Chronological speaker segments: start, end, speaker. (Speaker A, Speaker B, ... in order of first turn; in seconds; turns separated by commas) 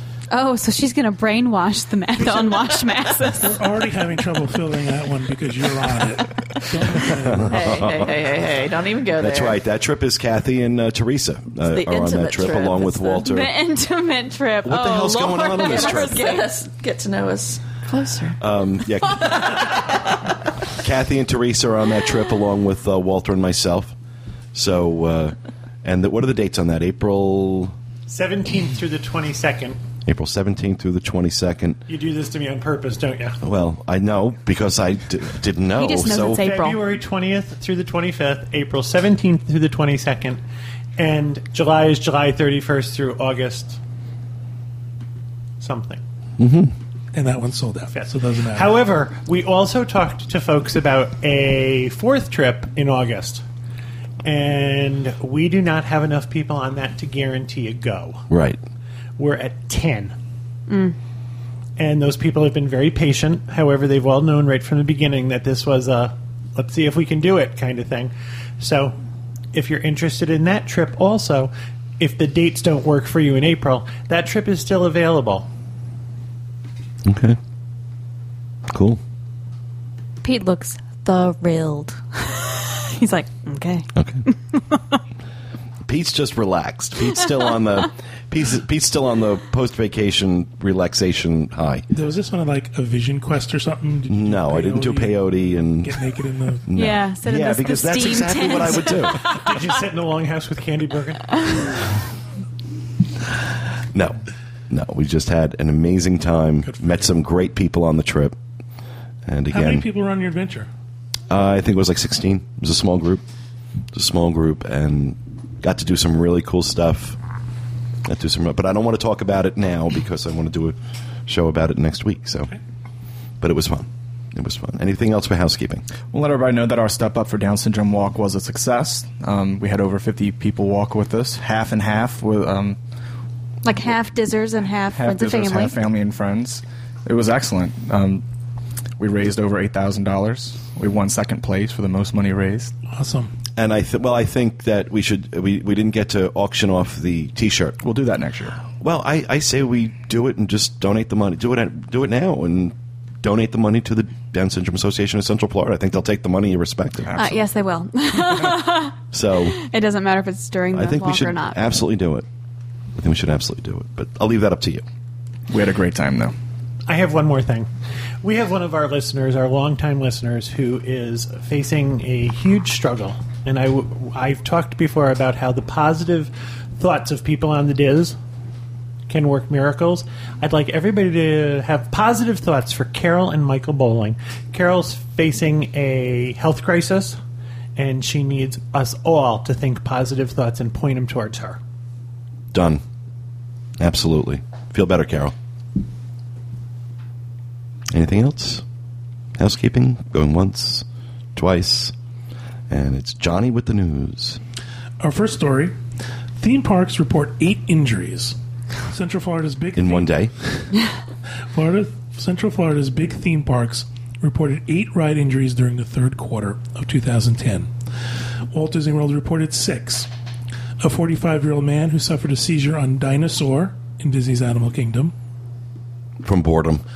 Speaker A: 0.3-3.5, Speaker B: 3.4-7.8, Speaker C: 7.2-8.1, Speaker D: 7.4-9.6, Speaker C: 9.2-13.5, Speaker D: 11.6-13.2, Speaker A: 13.2-16.4, Speaker C: 14.6-16.4, Speaker D: 15.5-18.4, Speaker C: 18.4-19.6, Speaker C: 20.8-23.9, Speaker C: 24.5-27.7, Speaker E: 28.1-29.8, Speaker C: 30.1-31.8, Speaker E: 31.9-33.4, Speaker C: 33.4-36.4, Speaker A: 35.7-36.8, Speaker E: 36.2-40.4, Speaker E: 41.0-43.8, Speaker E: 45.6-46.0, Speaker C: 46.4-46.7, Speaker B: 47.1-48.7, Speaker E: 47.9-53.4, Speaker E: 54.2-58.2, Speaker C: 58.3-58.6, Speaker E: 59.2-60.1, Speaker A: 60.7-60.9, Speaker E: 61.8-69.0, Speaker E: 69.5-75.5, Speaker C: 77.0-77.4, Speaker C: 78.7-79.0, Speaker A: 80.2-83.9, Speaker C: 84.0-84.2, Speaker C: 85.9-91.8, Speaker B: 91.9-96.7, Speaker C: 94.1-95.9, Speaker C: 96.7-99.2, Speaker A: 96.7-99.2, Speaker E: 99.2-101.8, Speaker C: 104.7-108.3, Speaker B: 106.7-107.1, Speaker C: 109.3-109.8, Speaker B: 109.5-110.7, Speaker C: 111.3-113.2, Speaker C: 113.9-117.2, Speaker C: 118.0-120.8, Speaker C: 121.3-122.5, Speaker C: 123.4-125.8, Speaker F: 126.1-132.8, Speaker A: 133.6-135.8, Speaker F: 134.9-138.2, Speaker F: 139.0-142.7, Speaker B: 142.9-143.3, Speaker C: 143.6-147.8, Speaker F: 147.8-148.6, Speaker C: 148.8-157.1, Speaker F: 157.1-157.4, Speaker A: 157.2-158.9, Speaker C: 159.1-159.6, Speaker A: 159.5-161.6, Speaker C: 160.7-162.2, Speaker C: 163.0-164.8, Speaker F: 165.5-166.3, Speaker E: 166.9-167.7, Speaker E: 168.2-178.2, Speaker E: 179.1-187.2, Speaker E: 187.8-191.6, Speaker C: 192.5-192.8, Speaker C: 193.8-195.3, Speaker C: 197.9-198.6, Speaker C: 199.4-200.8, Speaker C: 201.3-201.9, Speaker C: 202.7-204.4, Speaker B: 205.0-205.8, Speaker B: 206.4-208.3, Speaker B: 208.9-210.7, Speaker C: 209.8-210.3, Speaker B: 211.5-217.7, Speaker B: 218.5-220.1, Speaker B: 220.8-225.1, Speaker C: 226.2-226.8